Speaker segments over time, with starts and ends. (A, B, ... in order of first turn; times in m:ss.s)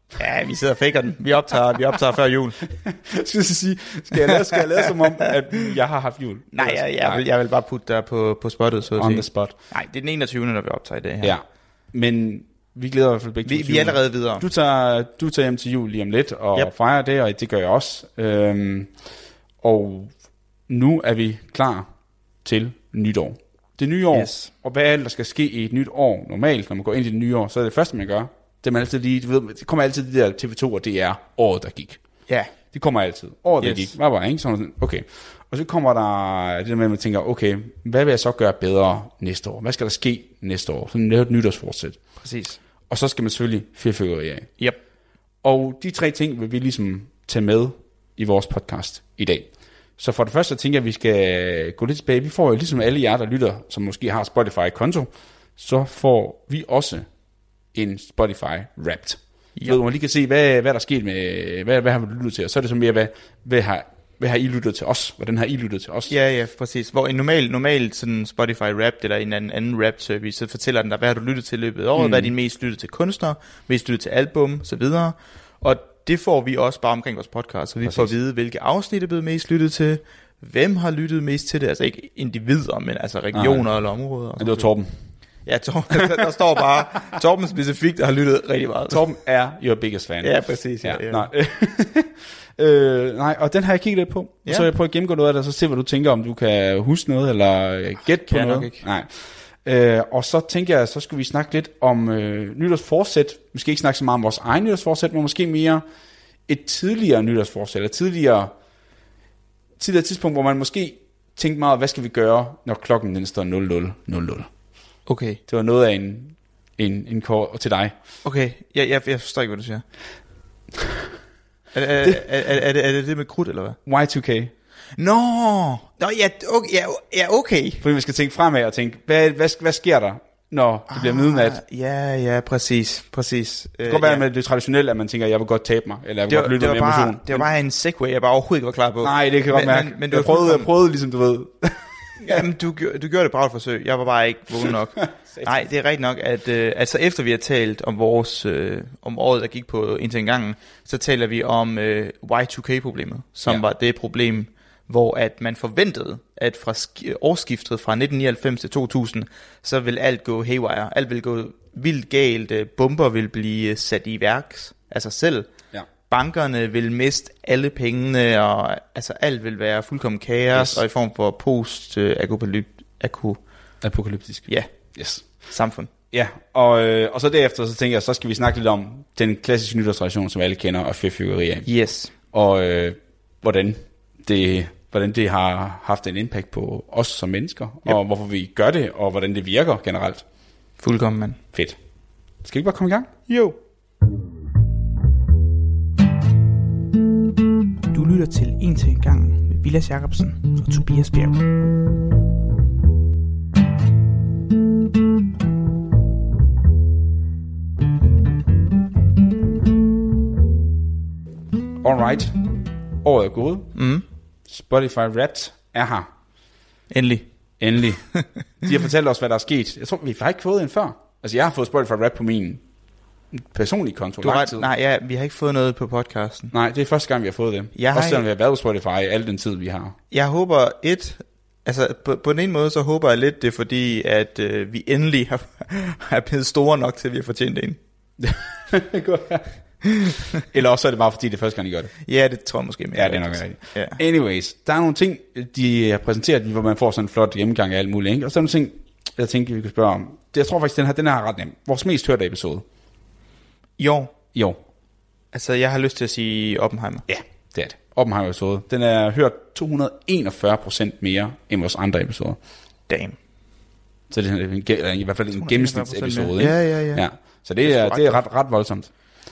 0:00.2-0:02.6 A
0:02.8-0:07.2 B
0:04.3-0:05.3 A
0:06.5-0:11.3 A
0:08.9-0:09.5 B
0:11.2-0:18.9 B
0:13.4-0:14.4 A
0:19.6-0:20.1 B
0:20.7-0:21.9 B
0:22.4-0:32.0 B
0:24.1-0:24.5 A
0:32.3-0:32.5 A
0:32.7-0:42.0 B
0:33.6-0:33.9 A
0:42.2-0:42.6 A
0:42.9-0:44.5 B
0:45.4-0:57.0 B
0:57.7-1:06.1 B
1:06.1-1:24.7 A
1:11.9-1:12.3 B
1:17.8-1:18.1 B
1:23.3-1:23.7 B
1:24.4-1:24.9 B
1:25.4-1:29.0 A
1:28.9-1:39.1 B
1:30.2-1:31.3 A
1:38.2-1:38.8 A
1:39.6-1:45.8 B
1:46.5-1:48.5 B
1:49.8-1:54.5 B
1:55.1-1:55.4 A
1:55.5-1:57.9 B
1:58.2-1:59.8 A
2:01.7-2:03.8 A
2:03.8-2:04.5 B
2:05.0-2:07.8 A
2:07.8-2:11.6 B
2:10.9-2:14.2 A
2:13.9-2:17.5 B
2:16.3-2:20.7 A
2:19.0-2:22.4 B
2:22.2-2:45.5 A
2:24.7-2:25.5 B
2:46.1-2:53.4 A
2:50.5-2:50.8 B
2:53.8-2:55.2 B
2:55.5-2:55.9 A
2:56.1-3:01.7 B
3:01.6-3:02.1 A
3:02.3-3:10.2 B
3:10.8-3:11.4 A
3:12.4-3:13.1 B
3:13.3-3:13.6 A
3:17.9-3:21.4 A
3:31.8-3:32.4 B
3:33.0-3:33.7 B
3:33.7-3:34.0 A
3:34.5-3:36.1 B
3:36.9-3:37.2 A
3:37.6-3:38.1 B
3:38.1-3:38.7 A
3:38.6-3:42.6 B
3:43.3-3:44.7 B
3:44.2-3:46.5 A
3:46.5-3:50.0 B
3:47.7-3:48.2 A
3:50.1-3:57.8 A
3:58.2-3:59.5 B
3:59.9-4:00.2 A
4:00.5-4:01.9 B
4:02.0-4:04.0 A
4:02.9-4:12.6 B
4:13.8-4:14.1 A
4:14.3-4:14.6 B
4:15.3-4:17.0 A
4:17.1-4:22.4 B
4:22.9-4:23.2 A
4:24.1-4:28.9 B
4:25.3-4:27.0 A
4:27.6-4:28.2 A